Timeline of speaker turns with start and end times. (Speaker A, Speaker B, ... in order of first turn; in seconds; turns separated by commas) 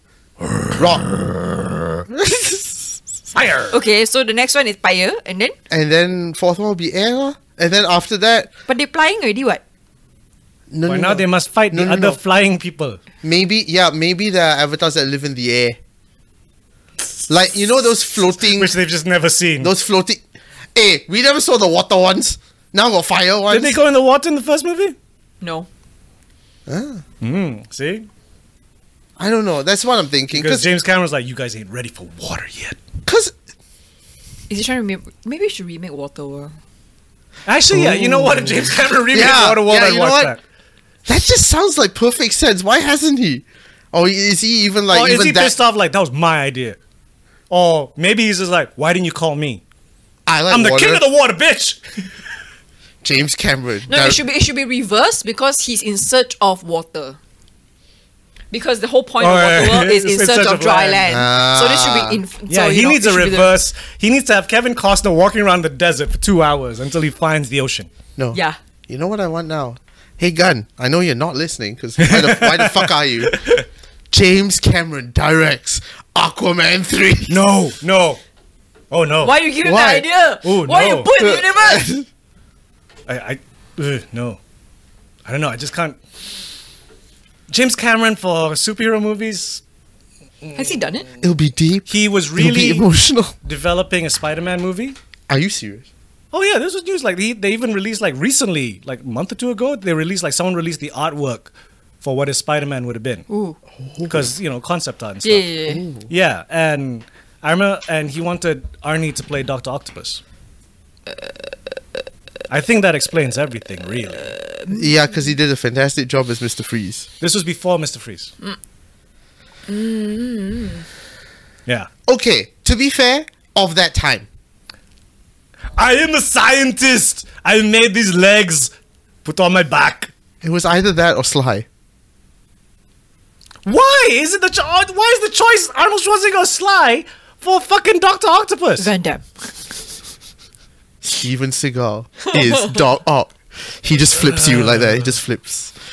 Speaker A: 0.5-0.8, Speaker B: 0.7-1.1, Speaker B: 2.1-2.9, Speaker A: 3.3-3.8, Speaker C: 3.7-5.5, Speaker B: 5.7-8.5, Speaker C: 8.7-9.6, Speaker B: 10.7-12.2, Speaker A: 10.9-13.0, Speaker B: 13.2-15.8, Speaker B: 17.3-18.7, Speaker A: 18.5-19.7, Speaker B: 19.6-20.2, Speaker B: 20.7-23.8, Speaker A: 23.5-24.9, Speaker C: 25.4-25.7, Speaker B: 26.7-27.0, Speaker A: 27.2-28.1, Speaker B: 29.2-30.7, Speaker A: 30.3-32.8, Speaker B: 33.0-33.3, Speaker C: 34.5-36.6, Speaker A: 37.5-40.4, Speaker B: 37.7-40.3, Speaker B: 41.0-45.5, Speaker A: 44.9-46.8, Speaker A: 47.5-49.6, Speaker B: 50.3-51.0, Speaker A: 50.5-51.8, Speaker B: 53.0-54.2, Speaker C: 53.9-57.2, Speaker C: 58.5-63.6, Speaker A: 59.2-61.2, Speaker B: 61.1-62.2, Speaker A: 62.5-67.9, Speaker B: 68.2-73.4, Speaker A: 72.0-73.6, Speaker B: 74.1-77.4, Speaker A: 77.3-78.2, Speaker A: 78.9-79.4, Speaker C: 79.2-81.9, Speaker B: 79.6-80.1, Speaker A: 80.4-81.1, Speaker B: 81.1-82.1, Speaker A: 83.1-84.4, Speaker A: 85.2-86.0, Speaker A: 87.5-89.6, Speaker C: 90.5-91.1, Speaker B: 91.2-93.3, Speaker A: 91.9-92.8, Speaker A: 93.4-95.0, Speaker B: 95.3-95.8, Speaker A: 96.3-101.5, Speaker A: 102.0-103.2, Speaker C: 103.3-103.6, Speaker B: 103.8-104.3, Speaker A: 104.1-105.5, Speaker C: 105.2-105.8, Speaker B: 105.7-106.1, Speaker A: 106.0-110.2, Speaker A: 112.5-114.3, Speaker C: 114.3-114.9, Speaker B: 114.7-117.1, Speaker A: 117.2-118.3, Speaker C: 119.7-120.8, Speaker B: 122.1-124.2, Speaker A: 125.8-128.7, Speaker A: 129.2-130.1, Speaker B: 130.4-131.7, Speaker A: 133.6-138.9, Speaker C: 138.8-139.3, Speaker B: 141.0-145.7, Speaker C: 142.3-142.7, Speaker A: 144.2-145.2